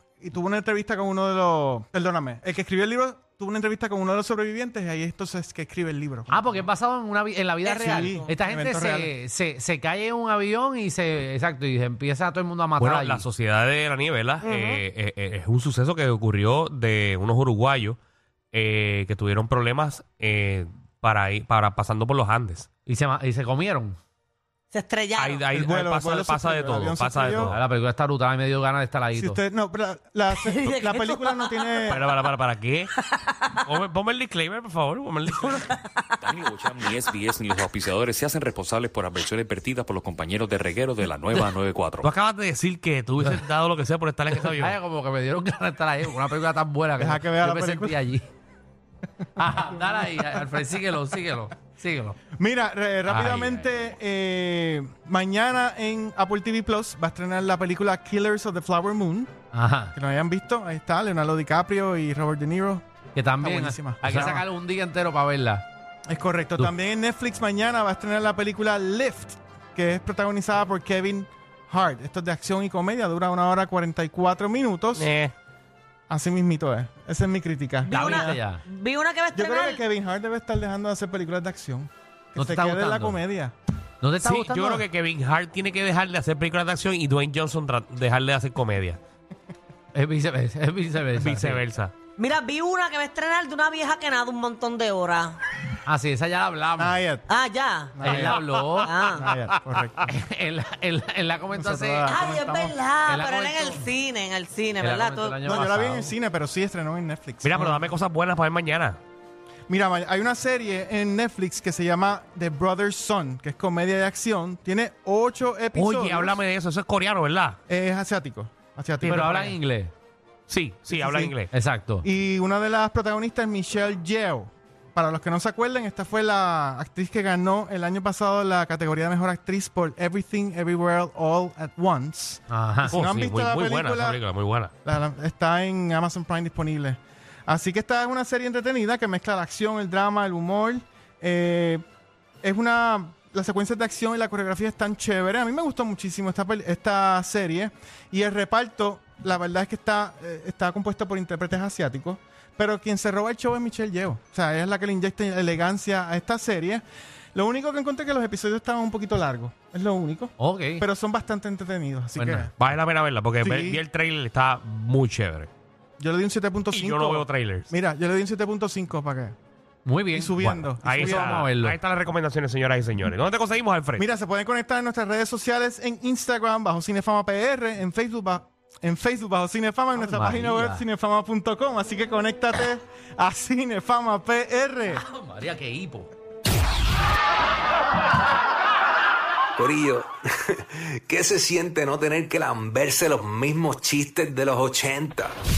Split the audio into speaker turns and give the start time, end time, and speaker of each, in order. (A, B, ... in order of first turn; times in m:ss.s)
0:00.2-0:06.3 A
0:06.3-0:13.2 B
0:07.6-0:08.3 C
0:07.8-0:09.1 A
0:12.8-0:18.0 D
0:14.4-0:14.8 C
0:18.5-0:22.7 D
0:22.8-0:24.0 B
0:24.7-0:25.4 C
0:25.2-0:27.6 D
0:25.5-0:27.5 A
0:27.3-0:29.4 B
0:29.1-0:32.0 A
0:30.3-0:32.1 C
0:31.9-0:32.9 D
0:33.0-0:33.6 C
0:33.6-0:35.7 D
0:35.7-0:36.1 C
0:36.3-0:42.0 E
0:42.0-0:44.8 D
0:44.4-0:48.3 B
0:47.0-0:48.0 A
0:49.4-0:52.2 B
0:49.6-0:50.3 A
0:52.4-0:59.3 A
0:53.1-0:53.6 B
0:59.5-0:59.9 B
0:59.9-1:02.8 A
1:03.1-1:05.6 B
1:03.4-1:04.4 A
1:06.1-1:15.1 A
1:14.9-1:15.3 D
1:16.1-1:18.4 A
1:17.8-1:19.8 C
1:17.9-1:18.6 B
1:19.3-1:23.5 A
1:22.4-1:23.2 B
1:24.0-1:24.8 B
1:24.2-1:29.0 D
1:29.9-1:31.6 B
1:31.2-1:31.9 D
1:32.2-1:35.4 C
1:35.8-1:37.0 B
1:36.8-1:37.3 A
1:37.3-1:39.3 C
1:37.9-1:38.5 A
1:38.0-1:38.9 B
1:39.1-1:40.1 A
1:40.0-1:42.2 B
1:41.5-1:42.8 A
1:42.0-1:45.4 C
1:43.0-1:43.9 B
1:44.8-1:46.1 B
1:45.4-1:47.9 A
1:47.4-1:49.0 D
1:49.7-1:56.4 A
1:55.7-1:57.6 D
1:57.7-1:59.4 A
1:59.0-1:59.6 D
1:59.0-1:59.9 B
2:00.5-2:01.5 D
2:00.9-2:01.3 A
2:01.5-2:02.0 B
2:02.0-2:14.2 A
2:12.5-2:12.9 B
2:12.9-2:14.7 D
2:14.8-2:21.8 A
2:22.4-2:36.8 A
2:37.3-2:42.5 A
2:40.4-2:40.8 B
2:42.2-2:42.5 B
2:42.6-2:45.5 D
2:43.4-2:43.8 A
2:46.0-2:49.4 A
2:46.7-2:47.7 D
2:49.8-2:51.8 B
2:50.1-2:51.4 A
2:50.4-2:54.0 D
2:54.0-3:05.0 A
2:59.9-3:00.8 B
3:04.9-3:06.1 B
3:09.6-3:15.4 F